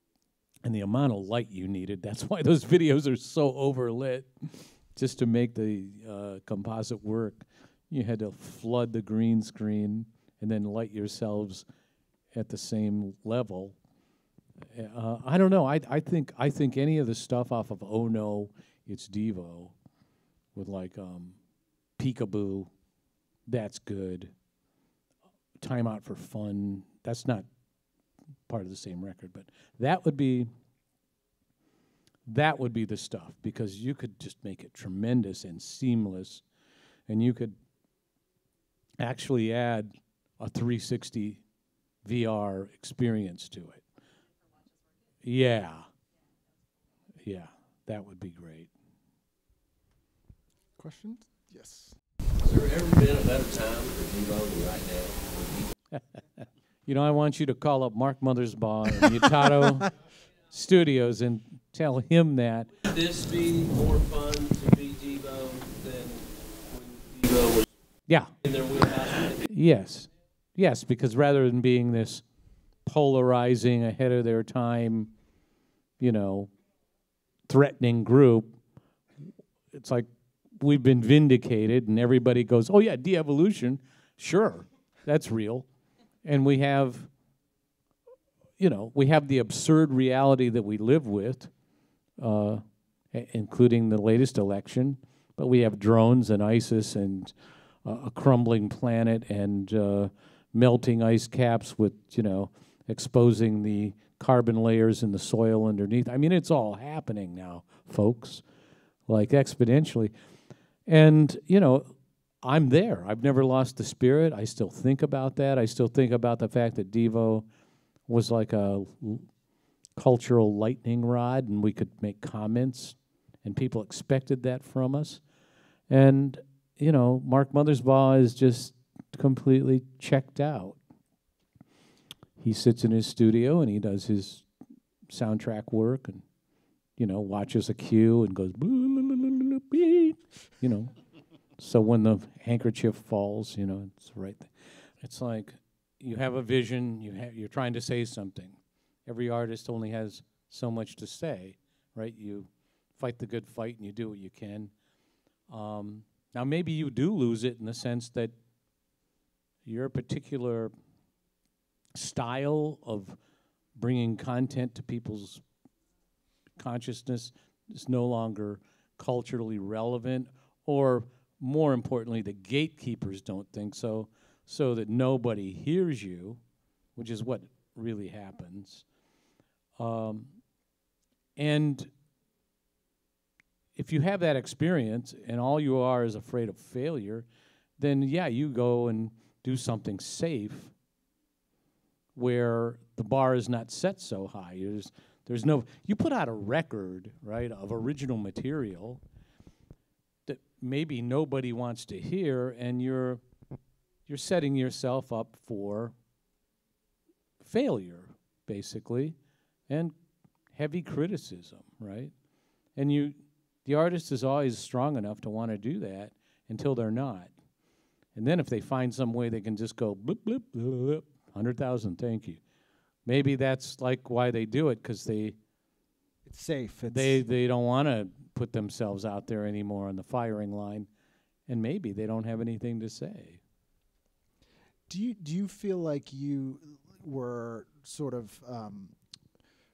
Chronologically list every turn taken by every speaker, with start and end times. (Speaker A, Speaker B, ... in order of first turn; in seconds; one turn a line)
Speaker A: 0.7-11.7
Speaker A: 12.3-13.8
Speaker A: 14.7-19.7
Speaker A: 20.6-21.4
Speaker A: 22.0-22.7
Speaker A: 23.5-24.3
Speaker A: 25.6-27.5
Speaker A: 28.5-30.5
Speaker A: 32.3-36.4
Speaker A: 37.1-37.6
Speaker A: 39.0-41.4
Speaker A: 42.0-43.8
Speaker A: 45.2-45.9
Speaker A: 47.2-48.7
Speaker B: 50.8-52.0
Speaker C: 52.4-55.7
Speaker A: 55.9-59.9
Speaker A: 60.5-62.7
Speaker C: 62.9-67.7
Speaker A: 68.1-68.3
Speaker C: 68.4-69.4
Speaker A: 69.5-72.2
Speaker A: 72.9-75.1
Speaker A: 76.0-76.5
Speaker A: 77.5-78.6
Speaker A: 79.7-80.1
Speaker A: 80.6-85.7
Speaker A: 86.2-87.1
Speaker A: 88.6-91.5
Speaker A: 92.2-97.3
Speaker A: 97.8-108.4
Speaker A: 109.1-110.1
Speaker A: 110.9-117.5
Speaker A: 118.1-119.3
Speaker A: 120.0-125.2
Speaker A: 125.9-130.8
Speaker A: 132.4-134.5
Speaker A: 135.1-136.2
Speaker A: 137.0-140.9
Speaker A: 141.6-154.7
Speaker A: 155.5-158.3
Speaker A: 159.7-160.7
Speaker A: 161.9-163.2
Speaker A: 163.8-165.4
Speaker A: 166.6-176.4
Speaker A: 177.0-178.8
Speaker A: 179.8-180.3
Speaker A: 181.4-181.9
Speaker A: 183.8-187.3
Speaker A: 187.8-190.7
Speaker A: 192.2-199.0
Speaker A: 200.3-203.2
Speaker A: 204.1-205.9
Speaker A: 207.4-209.2
Speaker A: 209.7-209.9
Speaker A: 210.6-212.1
Speaker A: 212.8-217.3
Speaker A: 218.2-222.4
Speaker A: 223.1-225.4
Speaker B: 226.3-227.2
Speaker A: 226.9-230.9
Speaker A: 231.5-233.4
Speaker B: 234.9-238.9